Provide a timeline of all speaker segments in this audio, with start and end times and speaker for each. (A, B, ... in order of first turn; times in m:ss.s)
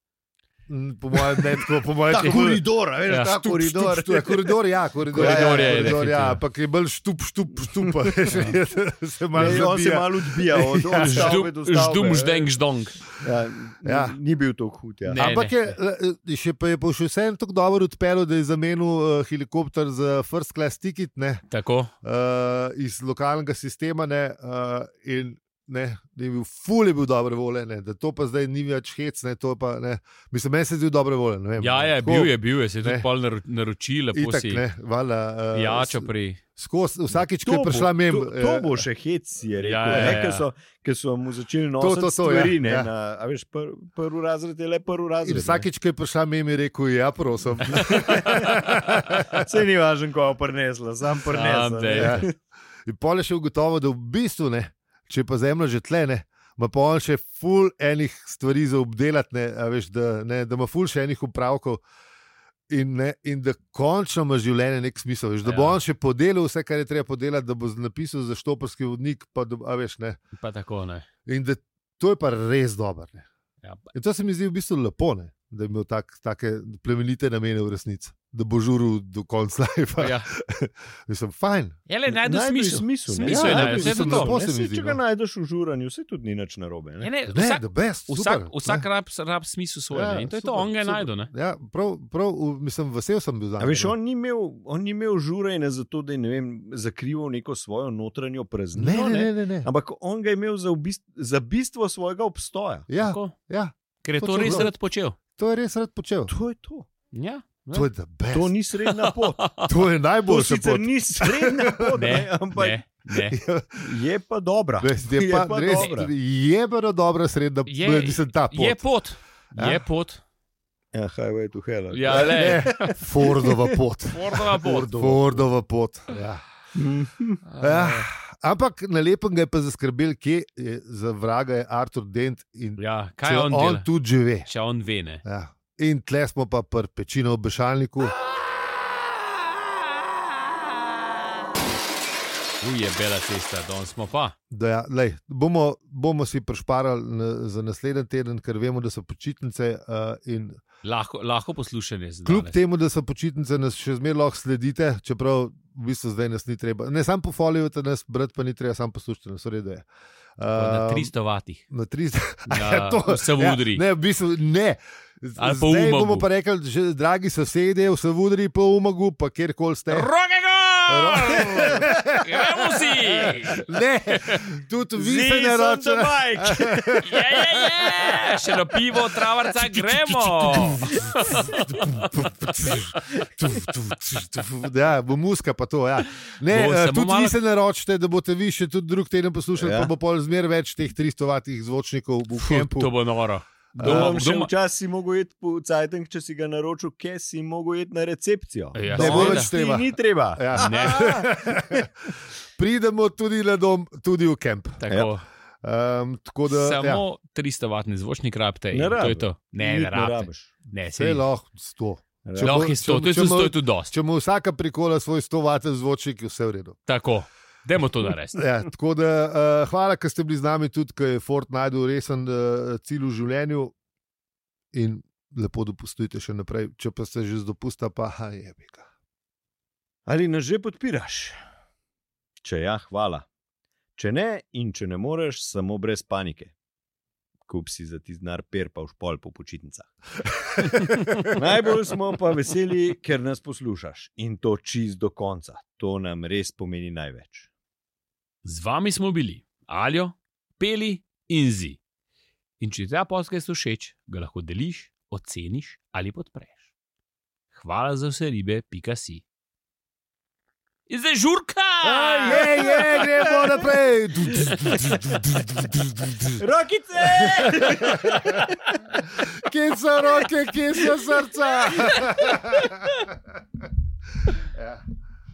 0:00.7-0:02.6 A
0:01.2-0:04.6 B
0:03.1-0:03.3 C
0:03.2-0:11.4 A
0:05.1-0:06.4 C
0:05.1-0:06.0 B
0:08.0-0:08.3 B
0:08.3-0:08.6 C
0:09.3-0:12.5 B
0:10.9-0:13.0 C
0:13.2-0:15.2 B
0:13.8-0:14.2 A
0:15.1-0:15.7 C
0:15.1-0:21.4 A
0:21.5-0:21.9 C
0:22.0-0:33.1 A
0:31.6-0:34.6 C
0:34.1-0:38.9 A
0:35.5-0:36.4 C
0:37.1-0:45.7 B
0:39.6-0:40.5 C
0:39.9-0:40.2 A
0:41.8-0:42.9 A
0:45.2-0:49.4 A
0:47.8-0:48.5 B
0:48.0-0:48.7 C
0:49.4-0:52.3 B
0:51.2-0:52.3 C
0:51.9-0:52.3 A
0:52.9-1:01.8 A
1:02.7-1:10.2 A
1:05.4-1:05.8 C
1:10.3-1:11.1 C
1:11.3-1:13.3 A
1:13.9-1:21.8 A
1:20.0-1:20.3 C
1:21.9-1:24.4 C
1:22.1-1:27.1 B
1:23.2-1:25.0 A
1:27.0-1:31.3 C
1:27.3-1:28.9 A
1:29.9-1:34.0 A
1:33.6-1:42.9 B
1:38.7-1:39.7 A
1:42.9-1:44.7 A
1:43.0-1:43.4 C
1:44.0-1:45.2 C
1:45.4-1:46.3 A
1:46.3-1:46.9 B
1:47.1-1:47.9 C
1:47.7-1:48.5 A
1:48.3-1:49.5 B
1:49.0-1:49.7 C
1:49.6-1:52.2 A
1:50.3-1:52.8 B
1:52.0-1:53.4 C
1:53.2-1:53.9 A
1:53.8-1:56.1 B
1:54.8-1:58.8 A
1:57.7-2:00.2 C
1:59.6-1:59.8 A
2:00.9-2:03.7 B
2:01.9-2:03.0 C
2:02.1-2:06.4 A
2:04.1-2:05.5 C
2:06.8-2:07.4 B
2:07.4-2:08.1 C
2:07.6-2:14.5 A
2:12.8-2:13.9 C
2:14.4-2:15.2 C
2:15.2-2:18.2 A
2:22.6-2:24.4 C
2:24.5-2:30.6 A
2:30.8-2:32.6 C
2:32.2-2:39.9 A
2:40.4-2:41.1 A
2:40.5-2:41.6 C
2:41.7-2:50.1 A
2:42.5-2:43.8 C
2:45.4-2:46.3 C
2:49.9-2:53.6 C
2:50.9-2:57.4 A
2:55.0-2:57.0 B
2:57.0-3:02.1 C
2:59.5-3:12.9 A
3:06.5-3:07.4 C
3:09.6-3:09.9 B
3:12.3-3:14.5 C
3:13.8-3:21.9 B
3:13.8-3:14.2 A
3:18.7-3:19.5 C
3:18.9-3:21.9 A
3:20.6-3:21.2 C
3:22.6-3:24.8 A
3:24.8-3:25.2 C
3:25.6-3:27.0 A
3:26.5-3:31.3 C
3:28.7-3:30.5 B
3:31.0-3:36.8 A
3:32.2-3:32.7 B
3:32.4-3:33.9 C
3:36.9-3:38.4 C
3:38.4-3:43.8 A
3:44.7-3:48.8 A
3:50.1-3:51.4 B
3:52.4-3:53.3 B
3:54.0-3:56.5 B
3:57.5-3:59.9 B
4:00.7-4:01.1 C
4:01.3-4:07.5 B
4:08.4-4:11.8 C
4:12.6-4:16.7 C
4:17.5-4:19.2 C
4:20.9-4:22.5 C
4:21.8-4:26.4 A
4:22.2-4:24.5 B
4:26.4-4:28.5 B
4:27.0-4:28.5 A
4:29.1-4:33.0 A
4:31.8-4:32.9 B
4:34.4-4:34.8 A